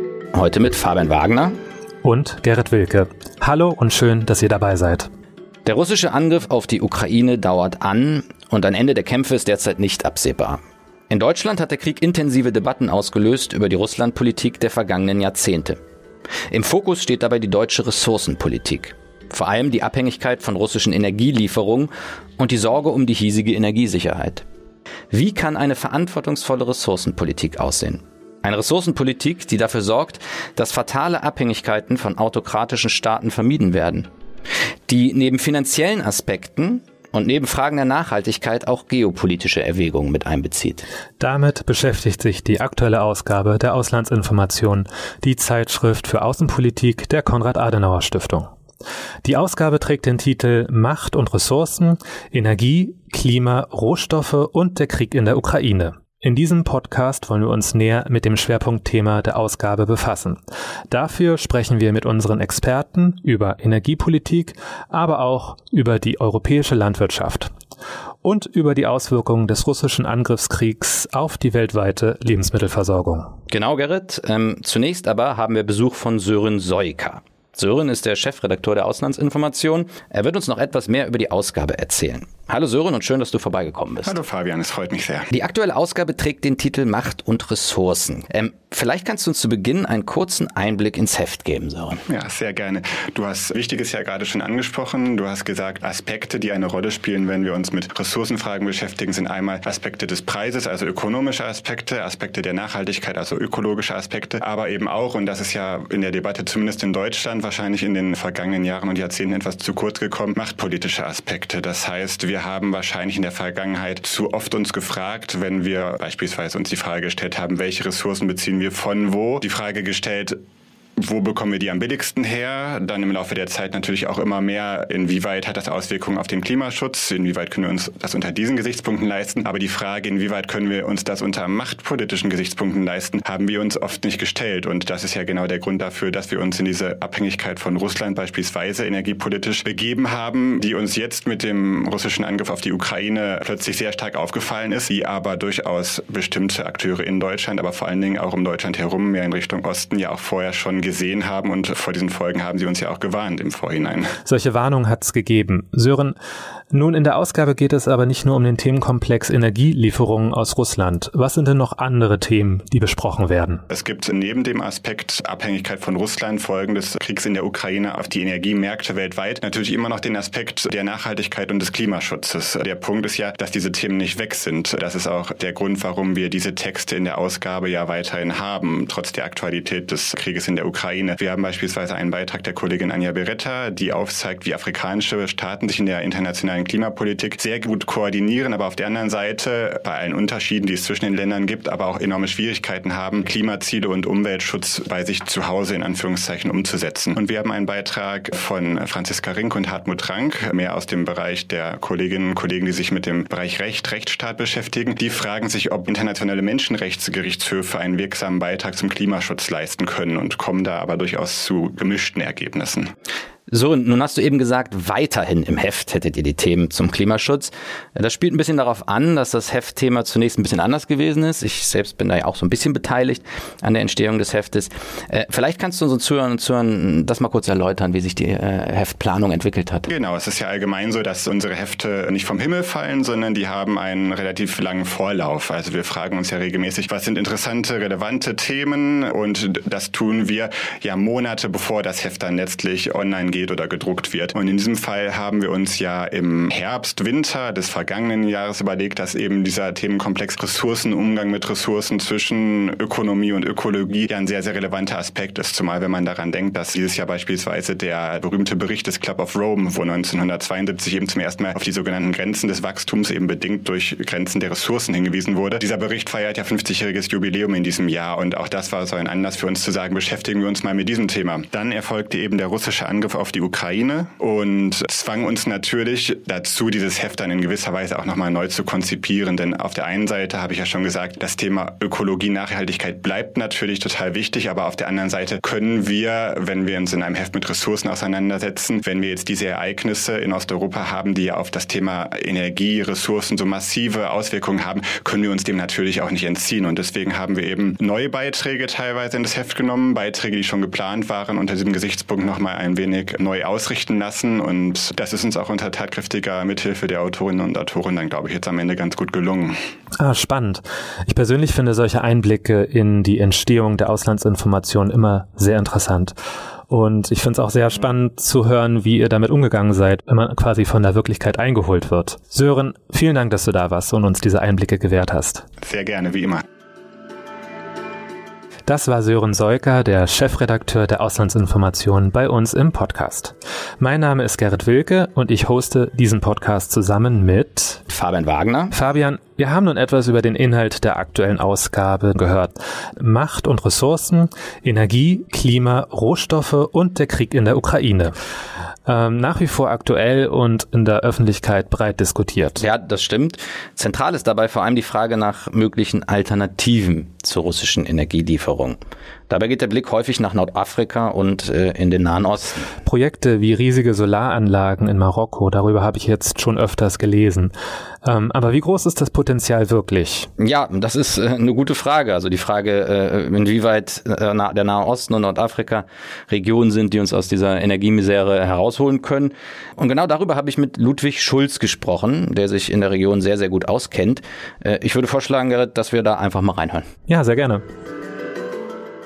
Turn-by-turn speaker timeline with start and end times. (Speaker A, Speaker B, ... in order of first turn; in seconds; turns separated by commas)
Speaker A: 0.3-1.6, Speaker B: 2.0-5.1, Speaker A: 5.6-15.8, Speaker A: 16.5-24.4, Speaker A: 25.1-34.1, Speaker A: 34.9-40.8, Speaker B: 41.2-48.5, Speaker B: 49.2-60.4, Speaker B: 60.9-67.5, Speaker B: 68.2-73.3, Speaker A: 73.5-84.2, Speaker C: 84.0-85.3, Speaker A: 85.3-92.0, Speaker C: 92.1-120.4, Speaker C: 121.0-154.1, Speaker B: 154.2-156.1, Speaker B: 156.7-163.6, Speaker C: 163.7-212.9, Speaker A: 213.5-229.9, Speaker C: 229.9-309.6, Speaker B: 310.0-316.1, Speaker B: 316.7-325.4, Speaker C: 325.6-326.4, Speaker B: 328.7-337.8, Speaker A: 337.9-338.7, Speaker B: 338.7-348.1, Speaker B: 348.9-352.6, Speaker A: 352.6-358.8, Speaker A: 359.3-362.7, Speaker B: 362.8-367.5, Speaker B: 368.0-370.3, Speaker A: 370.4-386.9, Speaker B: 387.1-387.6